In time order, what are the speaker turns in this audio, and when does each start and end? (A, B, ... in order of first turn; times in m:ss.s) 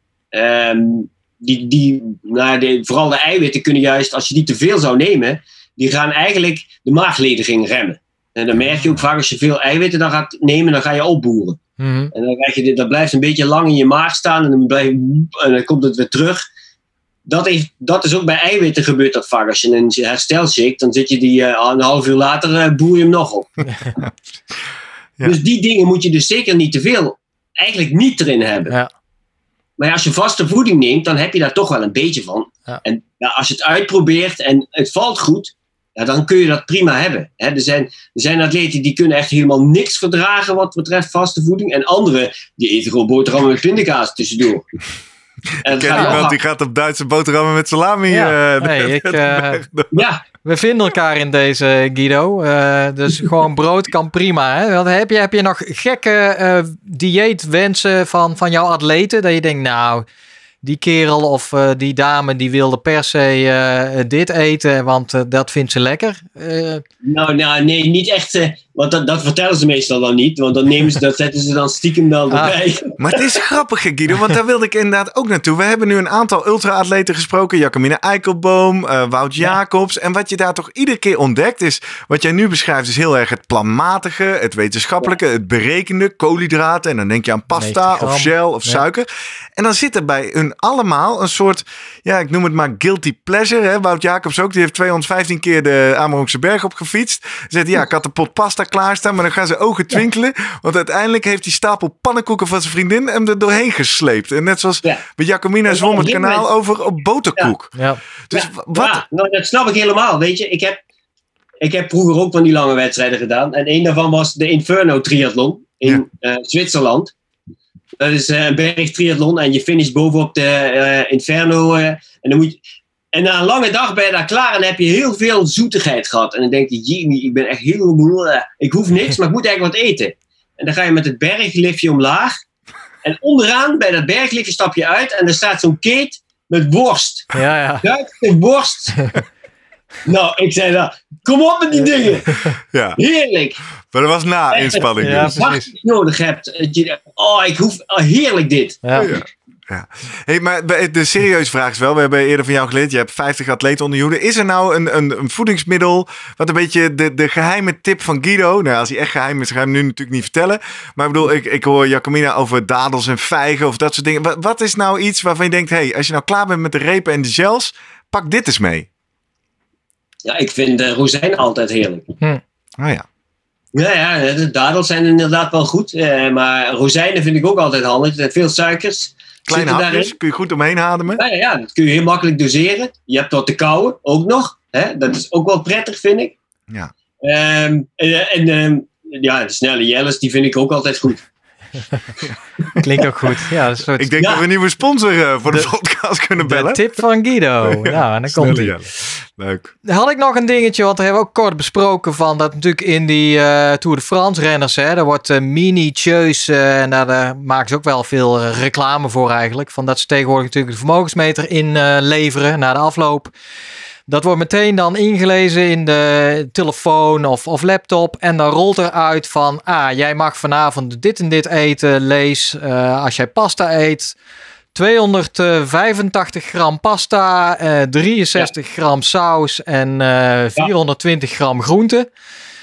0:00.3-0:11.6 A
0:11.8-0:12.1 B
0:12.1-0:16.4 A
0:17.3-0:23.5 A
0:25.2-0:28.7 A
0:29.8-0:44.7 A
0:45.6-0:46.4 A
0:45.6-0:50.0 C
0:45.9-0:46.2 B
0:48.1-0:49.6 B
0:49.9-0:50.2 A
0:50.4-1:00.0 B
1:00.6-1:06.8 B
1:07.0-1:13.4 A
1:12.3-1:12.6 B
1:13.0-1:47.7 C
1:27.5-1:28.8 B
1:45.7-1:46.4 A
1:47.8-1:48.0 B
1:48.3-1:49.0 C
1:48.3-1:50.8 A
1:51.6-1:57.1 A
1:58.0-2:02.6 A
2:03.1-2:12.3 A
2:13.0-2:19.0 A
2:17.3-2:17.8 B
2:20.0-2:22.4 A
2:22.7-2:23.0 C
2:23.0-2:23.6 A
2:23.9-2:25.4 C
2:24.5-2:28.9 A
2:25.0-2:25.7 B
2:29.0-2:48.9 C
2:50.2-2:52.1 A
2:52.8-2:53.0 C
2:53.7-3:00.1 A
2:59.5-3:01.2 C
3:01.2-3:06.4 A
3:07.2-3:11.2 A
3:12.8-3:14.1 B
3:13.9-3:16.9 C
3:14.2-3:14.4 A
3:16.4-3:18.8 B
3:17.6-3:19.7 C
3:19.8-3:33.3 B
3:34.1-3:44.2 B
3:44.7-3:52.1 B